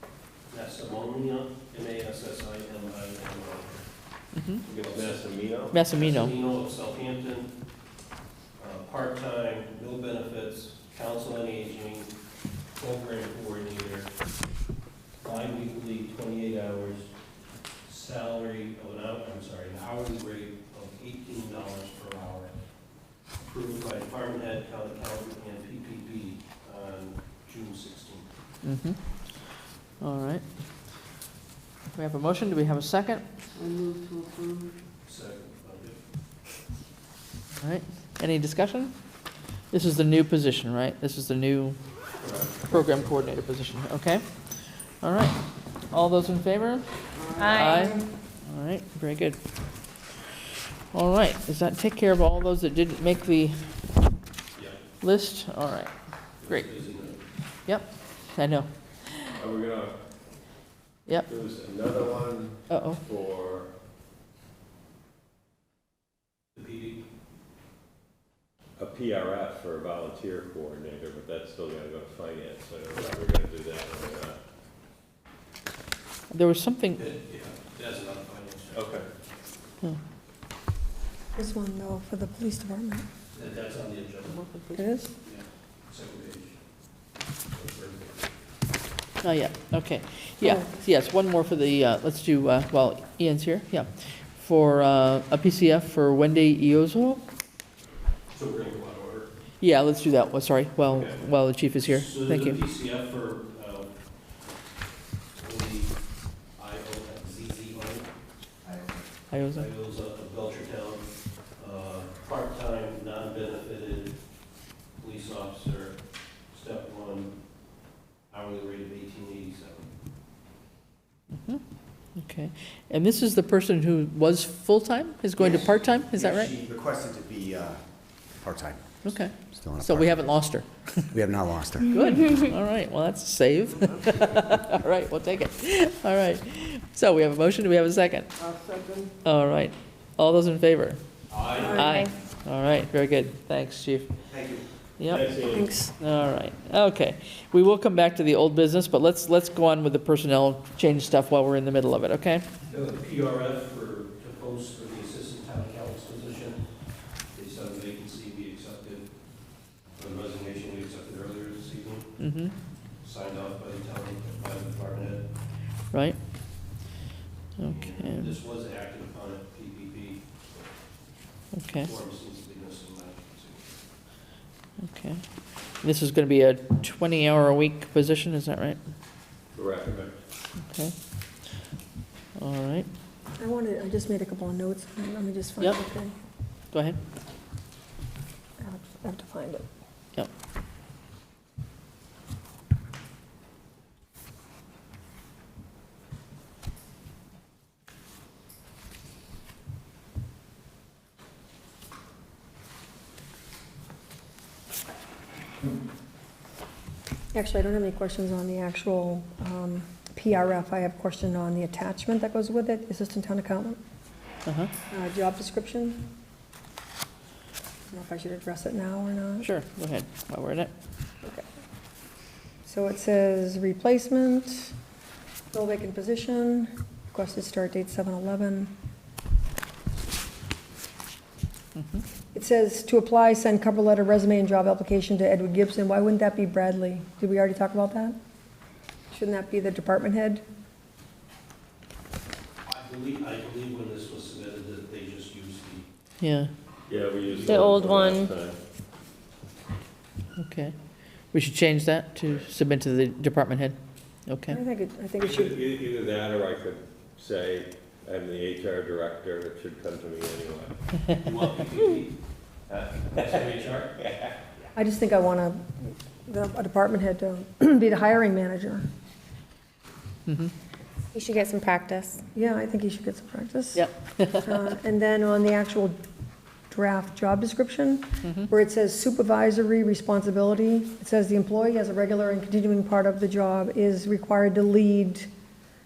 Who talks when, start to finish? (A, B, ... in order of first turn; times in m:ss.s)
0:00.5-0:03.8 A
0:04.4-0:04.6 B
0:04.6-0:07.5 A
0:04.7-0:05.8 C
0:05.7-0:06.3 B
0:08.6-0:12.1 A
0:12.8-0:14.1 A
0:15.2-0:17.1 A
0:17.9-0:22.5 A
0:23.4-0:28.3 A
0:28.6-0:29.0 B
0:30.0-0:30.4 B
0:32.0-0:33.2 B
0:33.6-0:34.7 D
0:35.1-0:36.0 A
0:37.6-0:38.9 B
0:39.7-0:41.8 B
0:42.2-0:42.9 A
0:42.7-0:44.2 B
0:45.0-0:45.4 B
0:45.9-0:46.9 B
0:47.2-0:48.0 D
0:47.4-0:47.7 E
0:47.4-0:49.4 B
0:50.9-0:53.5 B
0:55.0-0:55.9 B
0:56.4-0:57.2 A
0:57.7-0:59.3 B
0:59.3-0:59.9 C
1:01.3-1:03.7 C
1:02.7-1:03.0 B
1:06.6-1:07.0 A
1:08.8-1:14.4 C
1:16.3-1:17.0 B
1:17.0-1:19.0 A
1:18.8-1:19.0 C
1:21.4-1:23.0 F
1:23.4-1:24.4 A
1:24.7-1:25.1 F
1:25.2-1:26.6 A
1:27.5-1:28.3 A
1:29.2-1:37.2 B
1:38.3-1:39.3 A
1:39.6-1:42.6 B
1:40.9-1:41.2 A
1:41.8-1:43.9 A
1:45.4-1:45.9 A
1:46.6-1:48.1 A
1:49.3-1:49.7 B
1:49.5-1:51.0 A
1:51.6-1:54.2 A
1:55.0-1:56.0 A
1:56.5-1:57.3 A
1:58.3-1:59.9 A
2:02.2-2:06.5 B
2:05.4-2:10.5 G
2:09.0-2:11.0 B
2:11.1-2:12.0 G
2:11.9-2:18.3 B
2:18.4-2:19.1 D
2:19.2-2:21.0 B
2:21.3-2:21.9 A
2:21.5-2:24.1 B
2:21.6-2:22.0 F
2:21.8-2:22.1 E
2:24.3-2:24.6 G
2:25.0-2:25.4 B
2:25.1-2:25.7 C
2:25.5-2:25.9 F
2:26.0-2:32.4 B
2:32.7-2:36.6 A
2:37.3-2:39.0 A
2:40.0-2:42.2 A
2:42.2-2:42.5 B
2:43.0-2:45.2 A
2:45.9-2:46.2 B
2:47.6-2:48.3 B
2:47.6-2:50.2 A
2:51.6-2:51.9 B
2:51.8-2:53.7 A
2:54.8-2:55.2 B
2:55.8-2:58.8 B
2:59.6-3:00.0 C
3:00.7-3:00.9 B
3:02.4-3:02.9 B
3:03.4-3:06.1 F
3:06.7-3:07.0 B
3:08.6-3:09.7 F
3:27.3-3:33.8 F
3:34.5-3:34.7 B
3:34.9-3:36.1 F
3:37.9-3:39.5 F
3:39.4-3:40.7 B
3:42.6-3:44.7 F
3:45.5-3:48.7 F
3:51.8-3:52.0 B
3:52.3-3:58.2 F
3:59.1-4:00.4 F
4:02.7-4:05.9 A
4:06.2-4:06.5 B
4:06.9-4:08.6 C
4:07.0-4:08.1 A
4:07.4-4:08.3 E
4:10.4-4:10.7 B
4:11.3-4:13.8 B
4:14.3-4:14.6 B
4:14.5-4:15.6 F
4:15.2-4:20.8 C
4:21.2-4:22.2 A
4:23.1-4:24.0 A
4:24.8-4:28.9 F
4:30.3-4:30.5 B
4:31.1-4:32.2 E
4:32.4-4:33.9 F
4:33.8-4:34.6 B
4:34.4-4:36.0 F
4:36.7-4:45.3 F